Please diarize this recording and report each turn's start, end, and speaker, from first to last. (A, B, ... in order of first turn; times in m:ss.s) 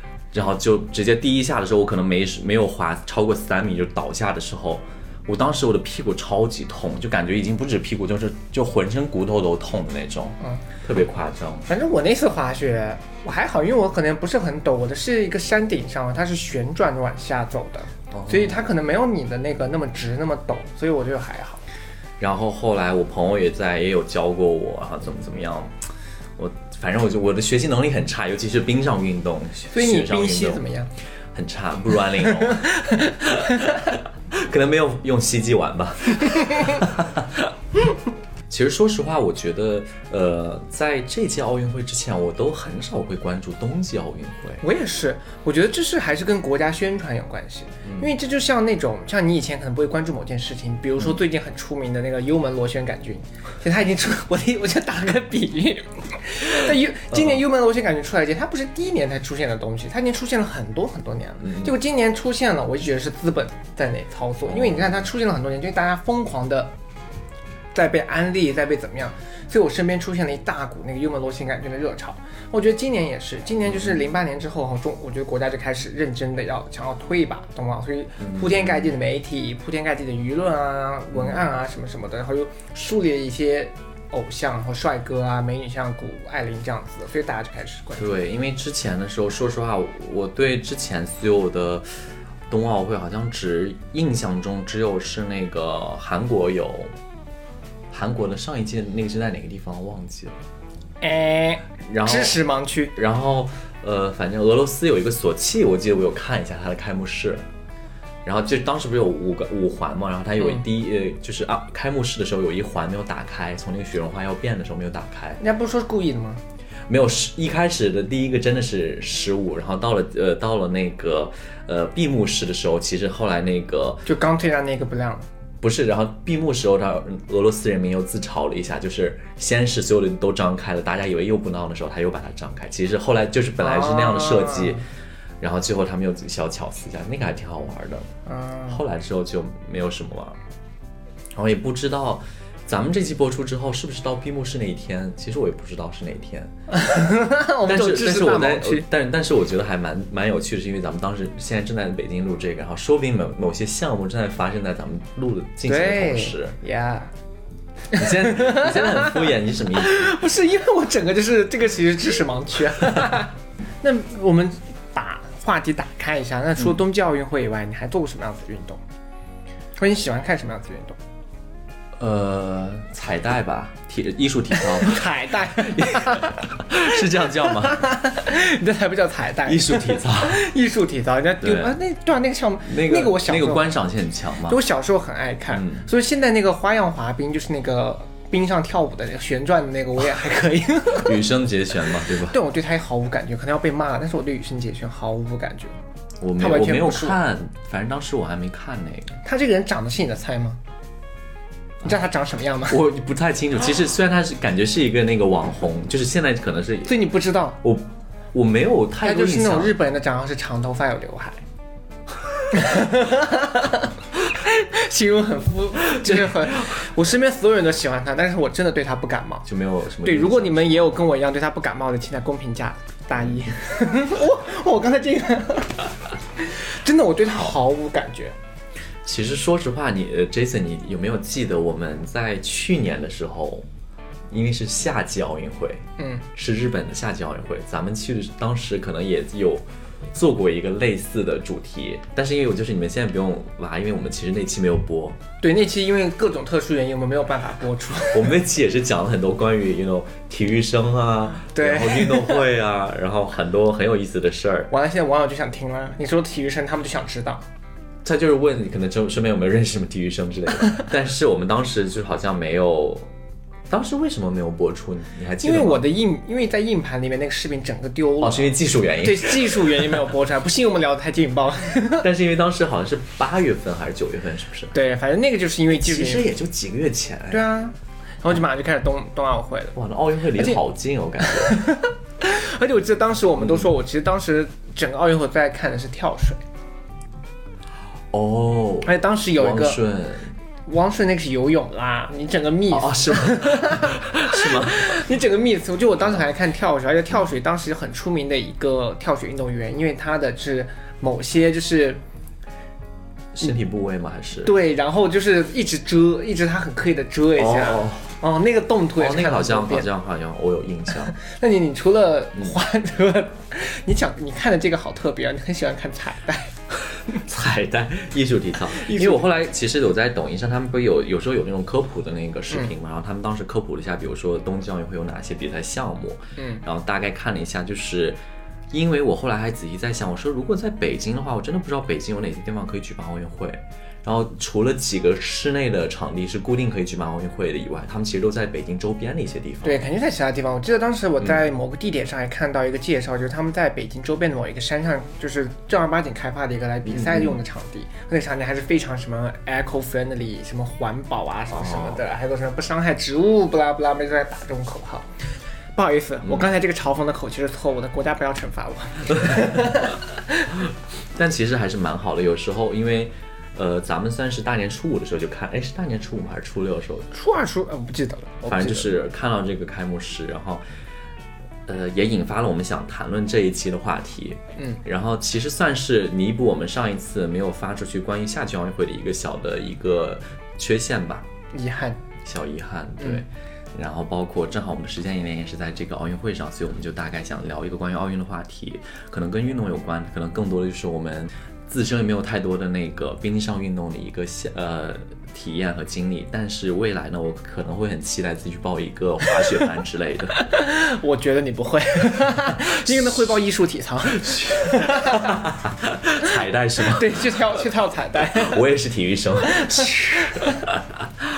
0:00.3-0:11.7 A
0:11.7-0:21.6 B
0:18.1-0:18.6 A
0:22.2-0:25.7 A
0:26.4-0:30.6 A
0:29.7-0:30.9 B
0:31.3-0:37.5 A
0:32.5-0:33.0 B
0:38.5-0:44.6 A
0:44.6-1:06.7 B
1:01.4-1:01.7 A
1:04.5-1:05.0 A
1:07.7-1:28.2 B
1:18.2-1:18.8 A
1:21.1-1:21.4 A
1:28.0-1:31.9 A
1:32.5-1:36.9 A
1:37.9-1:40.4 A
1:41.0-1:42.9 B
1:41.8-1:42.4 A
1:42.9-1:47.4 A
1:48.2-1:55.4 A
1:55.4-1:56.4 B
1:56.9-2:04.1 A
2:04.1-2:05.2 B
2:05.6-2:14.8 A
2:13.6-2:14.8 B
2:15.4-2:18.1 A
2:18.3-2:18.8 B
2:18.7-2:20.4 A
2:21.4-2:26.5 A
2:26.7-2:28.9 B
2:27.6-2:36.6 A
2:35.7-2:37.1 B
2:37.9-2:40.1 A
2:38.0-2:48.8 B
2:49.8-2:51.0 B
2:52.0-2:58.0 A
2:54.5-2:56.5 B
2:57.3-3:03.8 B
2:59.5-3:00.4 A
3:01.4-3:01.7 A
3:02.7-3:04.6 A
3:04.5-3:11.3 B
3:05.5-3:05.8 A
3:11.0-3:12.4 A
3:12.1-3:15.7 B
3:16.2-3:19.2 A
3:16.4-3:17.2 B
3:19.2-3:20.6 B
3:21.8-3:22.8 B
3:22.7-3:27.0 A
3:26.9-3:27.6 B
3:27.6-3:29.8 A
3:29.0-3:31.4 B
3:32.5-3:39.5 B
3:35.8-3:36.7 A
3:39.5-3:40.9 A
3:40.0-3:48.4 B
3:49.0-3:53.7 A
3:54.3-3:55.8 A
3:56.0-3:56.2 B
3:56.4-4:05.2 A
4:05.4-4:08.4 B
4:08.1-4:14.7 A
4:11.6-4:12.5 B
4:14.7-4:17.4 B
4:18.0-4:23.1 A
4:23.7-4:25.9 A
4:25.4-4:32.1 B
4:28.2-4:29.9 A
4:31.9-4:34.8 A
4:34.7-4:36.3 B
4:35.7-4:37.4 A
4:37.3-4:39.8 B
4:39.8-4:41.7 A
4:41.2-4:46.4 B
4:48.1-4:50.3 A
4:48.8-4:49.8 B
4:50.7-5:02.0 B
4:52.7-4:54.9 A
5:03.4-5:04.5 A
5:04.4-5:09.9 B
5:07.4-5:08.2 A
5:09.0-5:11.2 A
5:11.1-5:16.5 B
5:17.1-5:28.2 A
5:18.8-5:19.2 B
5:26.4-5:26.6 B
5:28.7-5:39.8 A
5:39.6-5:55.1 B
5:47.0-5:47.4 A
5:51.5-5:52.0 A
5:55.8-6:00.1 B
6:01.2-6:07.1 A
6:07.1-6:09.0 B
6:08.4-6:10.6 A
6:11.7-6:21.3 A
6:21.5-6:22.0 B
6:22.2-6:40.4 A
6:40.4-6:45.4 B
6:44.2-6:47.4 A
6:46.8-6:48.6 B
6:48.3-6:50.6 A
6:49.4-6:50.6 B